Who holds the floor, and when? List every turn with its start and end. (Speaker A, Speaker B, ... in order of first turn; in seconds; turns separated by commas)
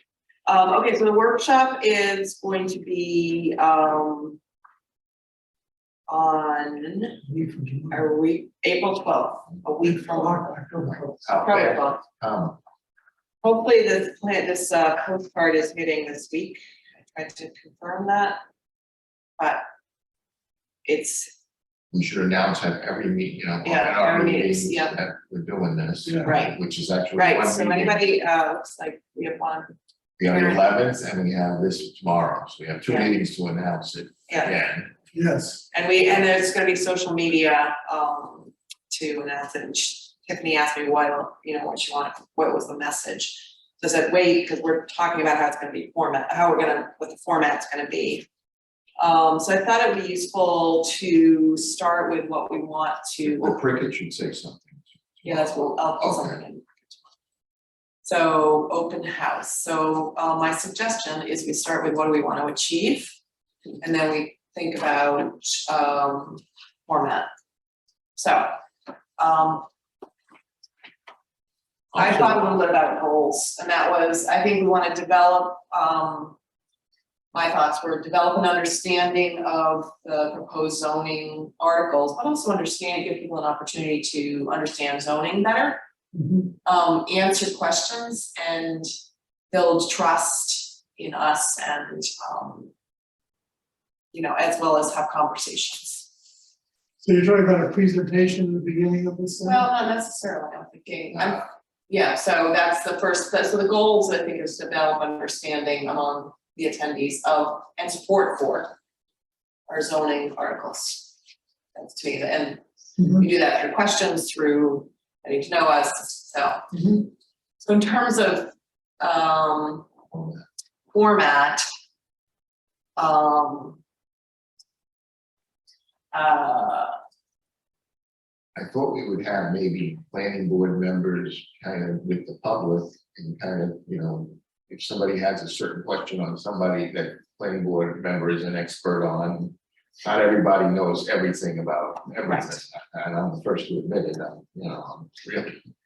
Speaker A: 0.5-4.4, Speaker A: 6.1-7.2, Speaker B: 7.2-8.1, Speaker A: 7.9-10.4, Speaker B: 9.8-11.2, Speaker C: 10.9-12.6, Speaker A: 11.4-12.0, Speaker A: 13.4-16.6, Speaker A: 17.1-18.4, Speaker A: 20.8-21.3, Speaker C: 21.9-28.0, Speaker A: 23.6-25.0, Speaker B: 26.1-26.3, Speaker A: 26.2-26.6, Speaker A: 27.1-29.7, Speaker C: 30.2-34.9, Speaker A: 30.2-30.6, Speaker A: 34.3-34.6, Speaker B: 35.1-35.6, Speaker A: 35.7-48.3, Speaker A: 49.0-53.6, Speaker C: 53.2-56.4, Speaker A: 55.2-56.9, Speaker A: 58.0-63.1, Speaker A: 63.8-67.3, Speaker A: 68.2-68.6, Speaker A: 69.2-69.7, Speaker C: 71.9-72.6, Speaker A: 71.9-76.4, Speaker A: 77.3-85.8, Speaker B: 86.1-86.5, Speaker A: 86.6-88.9, Speaker A: 89.5-92.7, Speaker A: 94.1-96.1, Speaker B: 97.0-99.7, Speaker A: 99.4-108.7, Speaker A: 109.7-111.1, Speaker A: 111.7-112.6, Speaker B: 113.0-113.2, Speaker A: 113.2-116.6, Speaker B: 116.7-117.0, Speaker A: 117.6-119.9, Speaker C: 120.1-120.4, Speaker A: 120.9-121.6, Speaker A: 123.0-123.8, Speaker A: 126.1-126.9, Speaker C: 128.5-145.6, Speaker A: 142.2-142.5